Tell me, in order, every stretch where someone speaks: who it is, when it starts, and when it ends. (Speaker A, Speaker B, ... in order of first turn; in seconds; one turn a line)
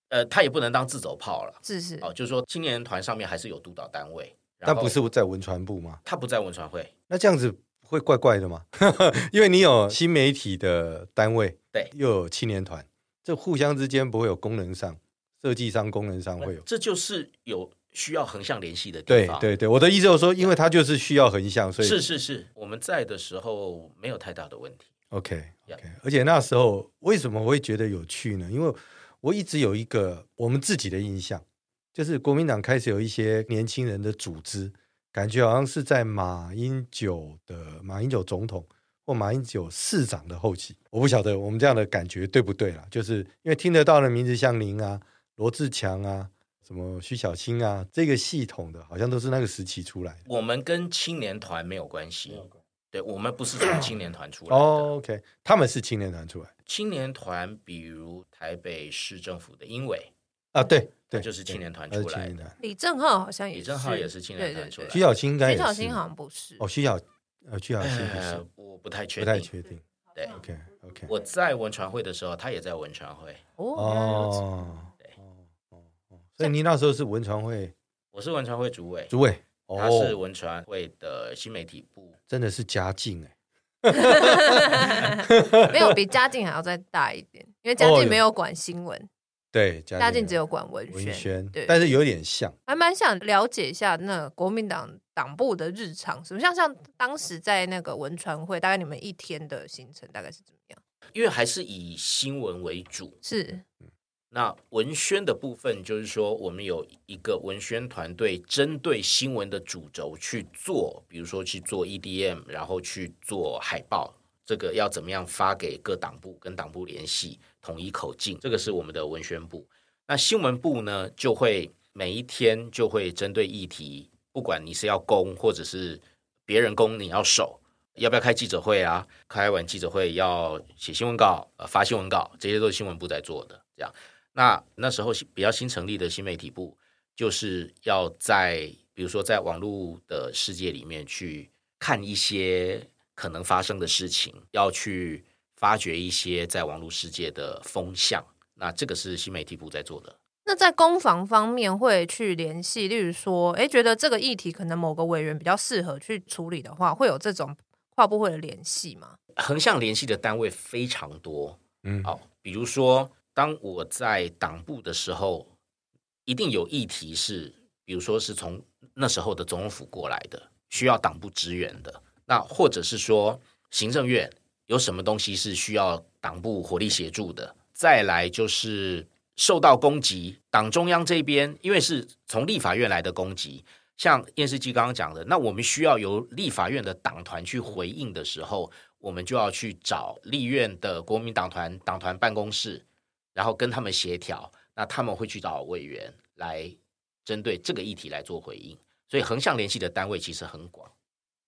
Speaker A: 0.1-4.9
Speaker B: 1.6-2.1
Speaker C: 4.6-6.0
Speaker A: 6.0-6.9
Speaker C: 7.1-16.6
Speaker A: 16.4-19.5
Speaker C: 19.1-22.0
Speaker A: 21.8-24.9
Speaker C: 25.1-31.4
Speaker C: 31.9-50.2
Speaker A: 50.2-54.9
Speaker C: 54.5-56.5
Speaker A: 56.7-60.1
Speaker C: 60.5-62.5
Speaker A: 61.1-62.5
Speaker B: 62.6-66.6
Speaker A: 63.5-65.0
Speaker C: 64.9-66.0
Speaker C: 66.6-68.4
Speaker A: 67.8-69.5
Speaker C: 69.2-71.1
Speaker A: 71.1-73.4
Speaker B: 73.6-74.5
Speaker C: 73.7-77.7
Speaker A: 78.1-79.1
Speaker C: 79.1-80.2
Speaker A: 79.8-82.2
Speaker C: 82.3-83.3
Speaker C: 83.8-85.9
Speaker B: 84.0-89.1
Speaker C: 87.8-88.2
Speaker C: 89.5-90.3
Speaker B: 90.0-91.8
Speaker C: 90.9-92.5
Speaker B: 92.7-100.8
Speaker A: 101.1-103.2
Speaker B: 103.2-103.6
Speaker A: 104.3-150.2
Speaker B: 150.4-159.2
Speaker A: 159.3-165.5
Speaker C: 161.8-162.1
Speaker A: 166.2-192.8
Speaker A: 193.3-200.9